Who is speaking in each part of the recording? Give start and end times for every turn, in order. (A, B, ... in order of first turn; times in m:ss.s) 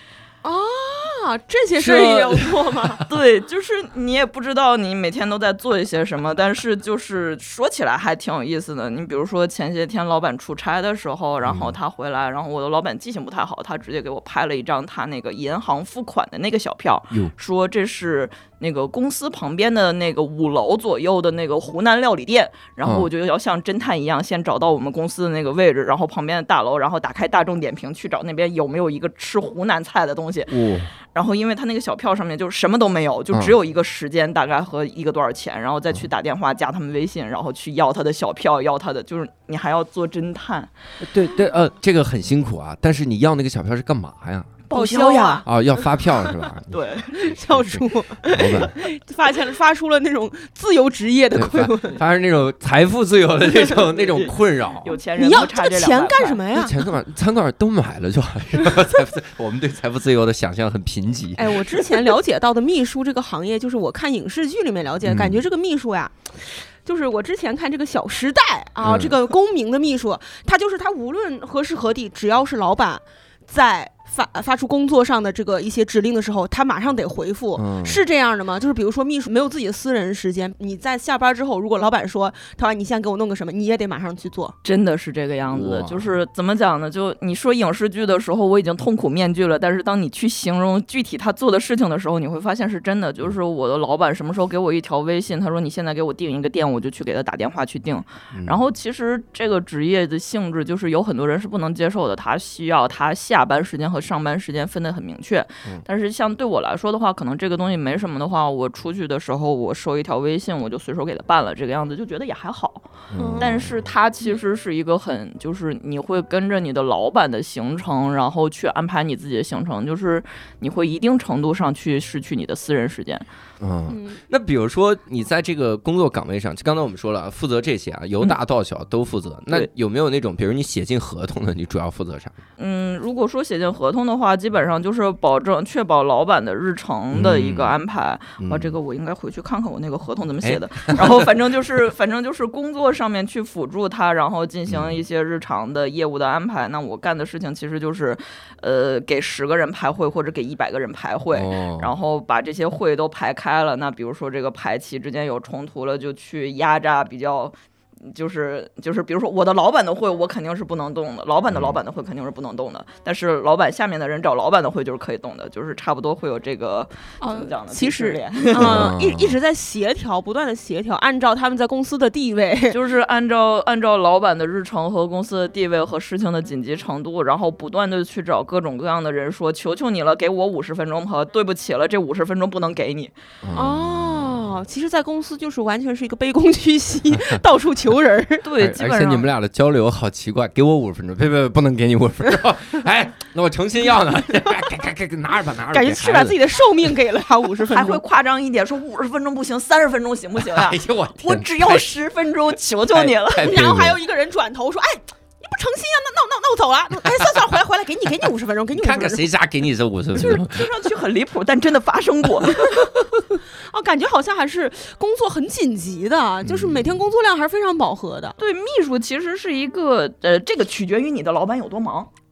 0:00.4-0:03.0 A
0:01.8-0:03.0 B
0:03.1-0:30.5 C
0:11.4-0:11.8 B
0:30.5-0:30.9 B
0:31.1-0:40.7 C
0:41.0-0:44.6 B
0:44.7-0:45.4 C
0:44.7-0:45.5 A
0:45.4-0:48.8 B
0:46.7-0:47.2 C
0:47.1-0:52.0 A
0:51.4-0:54.9 B
0:54.8-0:56.4 C
0:55.2-0:56.8 A
0:56.5-1:01.7 B
1:01.4-1:24.6 A
1:05.0-1:05.4 B
1:08.8-1:09.1 B
1:17.6-1:18.0 B
1:24.6-2:03.3 C
1:25.5-1:26.1 B
1:53.1-1:53.7 B
1:53.2-1:53.5 A
2:03.6-2:12.4 B
2:03.9-2:04.2 A
2:12.6-2:48.9 C
2:17.1-2:17.7 B
2:18.4-2:18.8 B
2:20.4-2:21.3 B
2:24.7-2:25.0 B
2:31.3-2:31.9 B
2:41.5-2:41.8 B
2:47.2-2:52.8 A
2:48.6-2:49.4 B
2:52.7-3:03.1 C
3:03.4-3:04.6 B
3:03.5-3:08.4 A
3:07.1-3:07.4 B
3:08.4-3:09.3 C
3:08.6-3:16.4 B
3:15.7-3:18.0 A
3:17.7-3:23.5 C
3:20.4-3:21.9 B
3:22.9-3:24.0 B
3:23.4-3:29.3 A
3:28.7-3:30.7 B
3:30.2-3:32.9 C
3:33.7-3:38.4 A
3:36.4-3:37.0 B
3:38.4-3:42.1 C